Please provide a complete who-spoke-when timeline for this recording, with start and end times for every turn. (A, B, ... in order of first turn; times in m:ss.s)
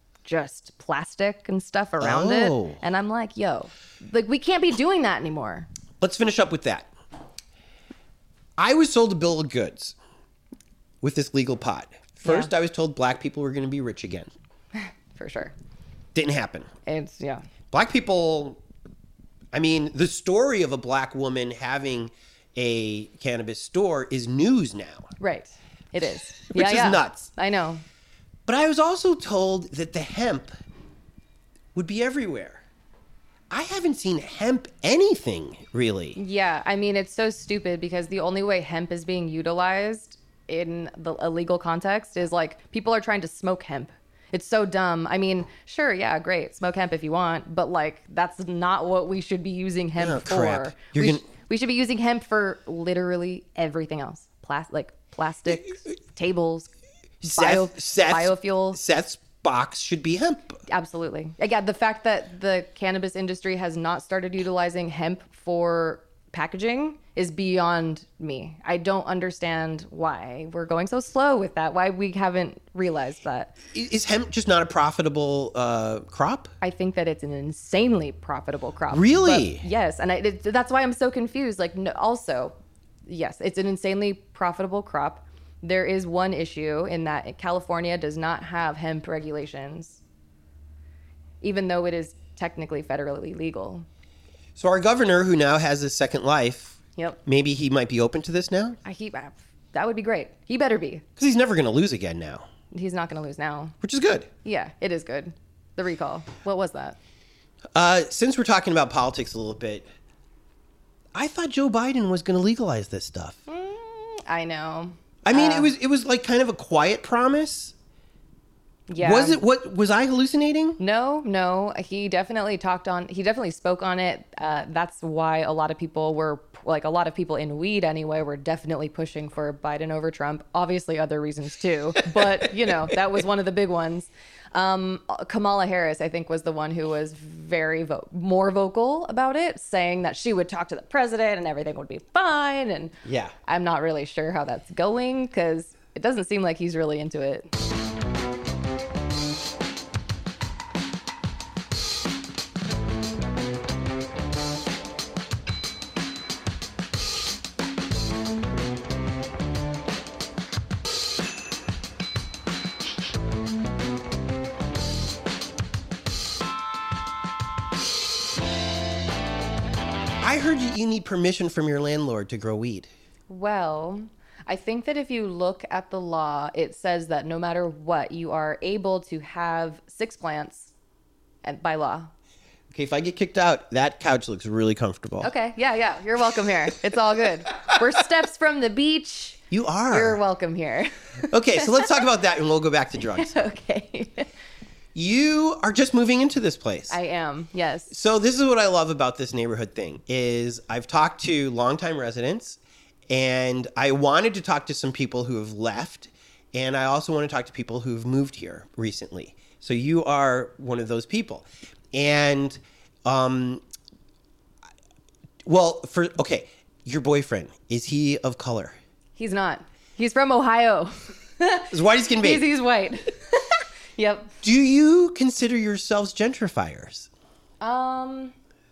0:00.2-0:05.7 A
0:02.0-0:02.8 B
0:06.0-0:06.9 B
0:08.6-0:10.0 B
0:11.0-0:14.3 B
0:12.2-0:12.5 A
0:14.8-0:15.5 A
0:16.2-0:16.7 B
0:16.9-0:17.4 A
0:17.7-0:18.6 B
0:19.5-0:25.1 B
0:25.2-0:27.8 A
0:26.5-0:27.3 B
0:28.5-0:30.5 B
0:31.8-0:32.6 B
0:33.5-0:36.2 B
0:36.2-0:56.7 A
0:50.0-0:51.2 B
0:57.2-1:00.6 B
0:57.3-0:58.8 A
1:00.7-1:13.5 A
1:13.7-1:16.5 B
1:16.6-1:22.6 A
1:18.9-1:19.6 B
1:23.1-1:30.0 A
1:31.4-1:33.9 A
1:34.6-1:38.8 B
1:38.8-1:41.0 A
1:41.2-1:42.4 B
1:42.7-1:43.8 A
1:43.8-1:44.3 B
1:44.4-1:47.0 A
1:47.8-1:49.8 B
1:51.1-1:53.4 B
1:53.5-1:55.7 A
1:55.2-1:57.7 B
1:58.9-1:59.4 A
1:59.0-2:00.8 B
2:00.8-2:23.0 A
2:23.0-2:23.4 B
2:23.5-2:27.5 A
2:50.2-2:52.9 B
2:53.3-3:00.7 A
3:01.4-3:02.1 A
3:02.7-3:05.3 B
3:05.2-3:12.0 A
3:09.5-3:10.2 B
3:11.3-3:13.3 B
3:13.1-3:14.3 A
3:15.0-3:17.0 B
3:16.9-3:17.9 A
3:17.9-3:33.6 B
3:35.4-3:38.8 B
3:39.2-3:44.3 A
3:41.7-3:42.5 B
3:44.4-3:47.1 B
3:47.6-3:48.3 A